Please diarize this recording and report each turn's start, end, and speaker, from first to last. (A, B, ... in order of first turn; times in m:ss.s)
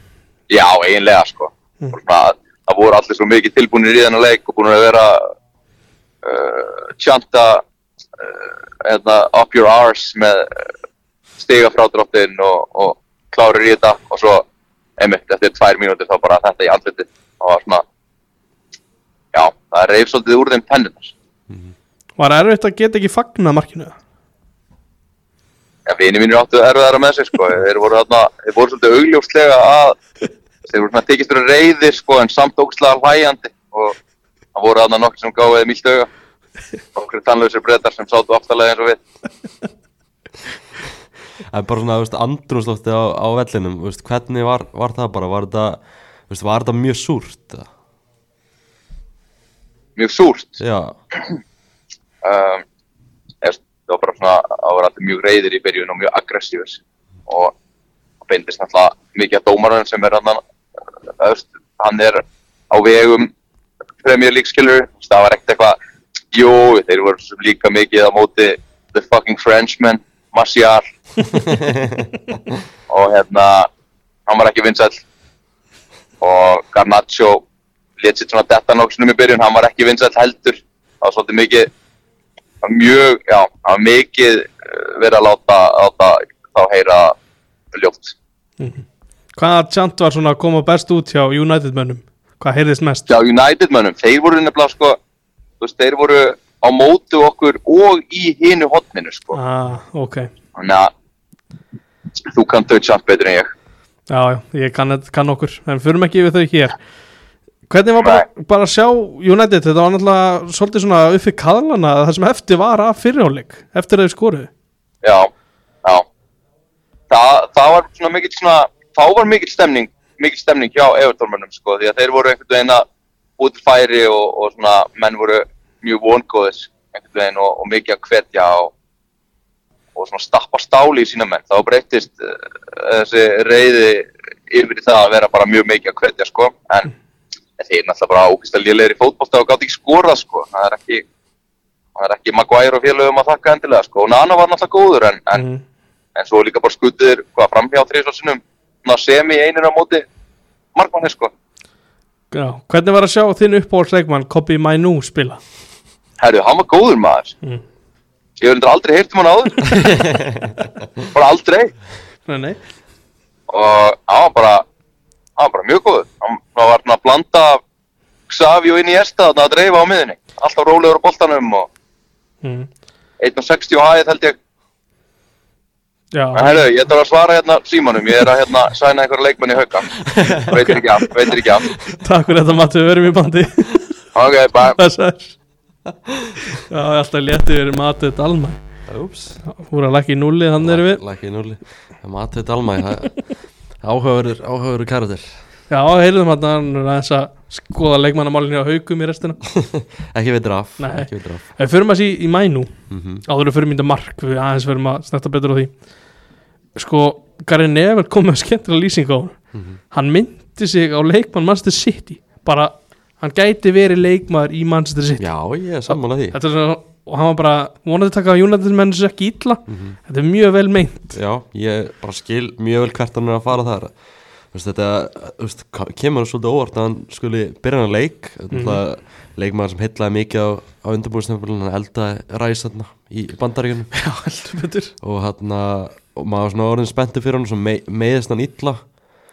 0:00.5-0:05.3 A
0:06.2-0:07.6 A
0:08.2-0:10.6 A
0:11.4-0:14.4 A
0:15.0-0:17.8 A
0:19.3-0:21.1 A
0:22.2-0:23.9 B
0:25.9-0:30.0 A
0:30.7-0:34.0 A
0:34.5-0:36.1 A
0:36.9-0:39.0 A
0:41.5-0:47.7 C
0:50.0-0:50.6 A
0:50.6-0:51.0 C
0:52.2-0:52.6 A
0:53.4-0:57.5 A
0:58.2-1:00.4 A
1:01.2-1:03.3 A
1:04.0-1:05.8 A
1:06.3-1:10.8 A
1:11.5-1:12.0 C
1:12.9-1:13.7 A
1:14.3-1:15.0 A
1:16.2-1:17.4 A
1:18.0-1:21.7 A
1:22.6-1:27.2 A
1:27.7-1:28.1 A
1:29.4-1:33.1 B
1:33.1-1:35.0 A
1:35.6-1:39.4 A
1:39.3-1:40.3 B
1:40.5-1:40.9 A
1:42.2-1:43.5 A
1:44.1-1:46.8 B
1:47.7-1:54.5 B
1:55.0-1:55.3 A
1:57.1-2:02.8 A
2:03.4-2:08.7 A
2:09.9-2:16.9 A
2:17.6-2:21.0 A
2:22.0-2:25.4 A
2:25.3-2:25.6 B
2:26.1-2:30.0 A
2:30.7-2:31.3 A
2:32.3-2:35.4 B
2:36.2-2:37.4 A
2:38.4-2:39.9 A
2:39.8-2:40.5 C
2:41.1-2:41.7 A
2:42.3-2:42.6 B
2:43.5-2:44.6 A
2:45.4-2:47.6 A
2:48.3-2:51.7 A
2:52.4-2:52.7 B
2:53.2-2:54.4 A
2:56.1-2:56.6 B
2:56.3-3:01.7 A
3:00.1-3:00.5 C
3:00.5-3:01.3 B
3:01.9-3:03.9 B
3:04.1-3:04.8 A
3:04.8-3:05.3 B
3:06.1-3:06.3 C
3:06.5-3:08.6 B
3:08.9-3:09.4 C
3:09.4-3:11.0 B
3:10.6-3:13.2 C
3:13.8-3:15.3 C
3:15.7-3:19.4 B
3:19.4-3:21.4 C
3:20.8-3:22.7 B
3:22.9-3:23.2 C
3:23.2-3:25.7 B
3:26.8-3:29.4 B
3:29.9-3:35.3 B
3:35.2-3:36.4 C
3:35.9-3:41.2 B
3:39.7-3:40.0 C
3:41.1-3:43.9 C
3:44.5-3:53.9 C
3:48.5-3:48.8 B
3:53.9-3:54.9 B
3:55.0-3:58.8 C